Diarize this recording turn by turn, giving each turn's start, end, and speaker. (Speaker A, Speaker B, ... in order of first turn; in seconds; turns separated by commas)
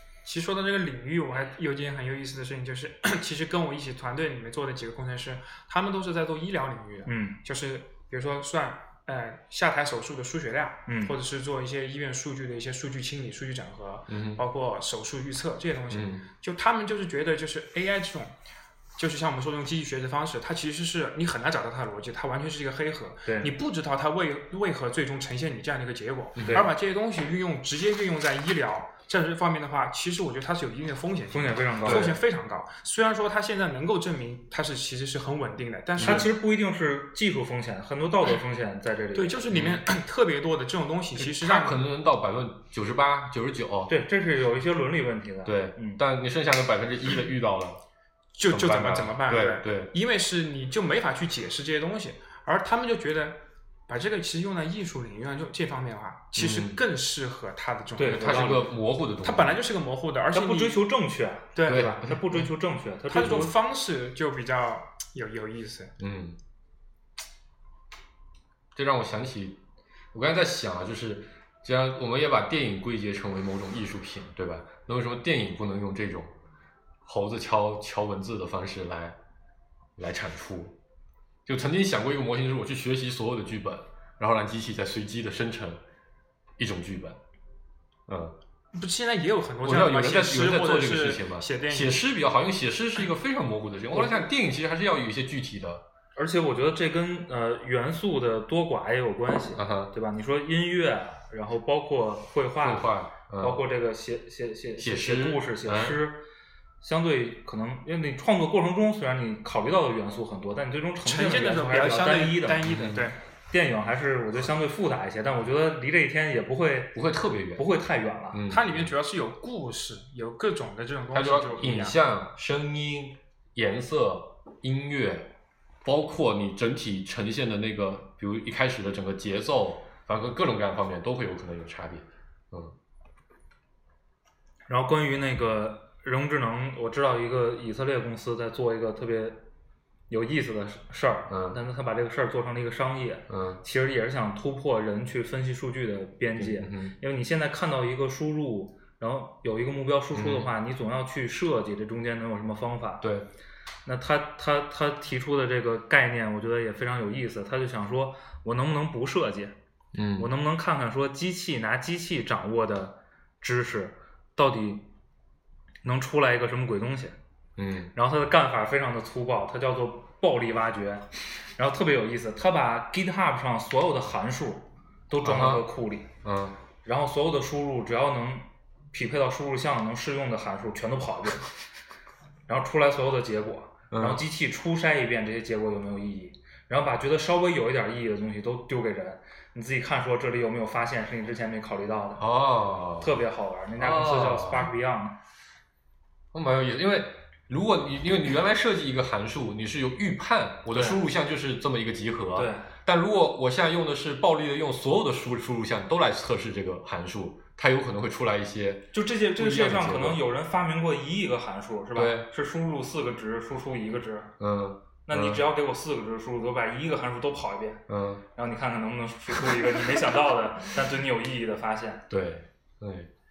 Speaker A: 0.2-18.3, Speaker B: 7.1-7.4, Speaker B: 10.9-11.1, Speaker C: 14.1-14.4, Speaker C: 15.9-16.2, Speaker A: 19.0-36.3, Speaker B: 23.2-23.5, Speaker C: 26.4-26.7, Speaker B: 26.4-26.7, Speaker B: 31.3-32.1, Speaker C: 31.8-32.1, Speaker B: 36.0-39.4, Speaker C: 36.0-36.2, Speaker A: 39.1-41.8, Speaker C: 39.5-39.8, Speaker C: 41.2-43.9, Speaker B: 43.9-46.0, Speaker C: 45.4-47.8, Speaker A: 48.3-58.5, Speaker C: 48.5-49.9, Speaker C: 56.3-56.8, Speaker B: 58.0-58.7, Speaker C: 58.0-59.6, Speaker A: 59.2-60.8, Speaker B: 60.3-63.5, Speaker A: 61.5-62.4, Speaker C: 61.7-62.2, Speaker A: 63.1-65.9, Speaker C: 63.2-63.4, Speaker C: 66.0-66.4, Speaker C: 68.7-69.6, Speaker C: 70.1-76.3, Speaker C: 77.0-79.2, Speaker C: 80.0-80.8, Speaker C: 81.5-85.8, Speaker C: 86.6-87.2, Speaker C: 88.1-88.4, Speaker A: 88.7-92.0, Speaker C: 89.6-95.9, Speaker B: 96.2-106.2, Speaker C: 99.5-99.9, Speaker C: 102.6-103.6, Speaker C: 104.8-106.0, Speaker B: 106.8-112.8, Speaker A: 111.0-113.2, Speaker C: 112.6-113.1, Speaker B: 113.5-117.0, Speaker C: 116.9-117.6, Speaker B: 117.5-118.4, Speaker C: 118.3-118.9, Speaker A: 118.5-122.0, Speaker C: 121.1-125.3, Speaker C: 125.8-132.7, Speaker B: 134.7-139.4, Speaker B: 140.1-153.1, Speaker C: 141.3-141.6, Speaker C: 143.3-143.6, Speaker C: 146.3-146.9, Speaker C: 150.1-150.5, Speaker C: 153.0-153.3, Speaker B: 153.9-159.6, Speaker C: 159.9-160.3, Speaker B: 160.2-164.9, Speaker B: 165.8-167.2, Speaker C: 167.6-167.9, Speaker B: 167.9-176.1, Speaker C: 175.2-175.7, Speaker C: 176.2-176.6, Speaker B: 176.8-181.5, Speaker B: 182.5-192.2, Speaker C: 183.9-184.2, Speaker C: 192.2-193.2, Speaker B: 193.0-195.2, Speaker C: 193.8-194.7, Speaker C: 196.3-210.2, Speaker B: 200.7-201.0, Speaker B: 202.3-202.7, Speaker B: 208.9-214.3, Speaker C: 211.9-212.3, Speaker C: 214.4-215.4, Speaker B: 215.1-217.8, Speaker C: 217.9-218.2, Speaker B: 218.4-222.1, Speaker C: 222.1-223.1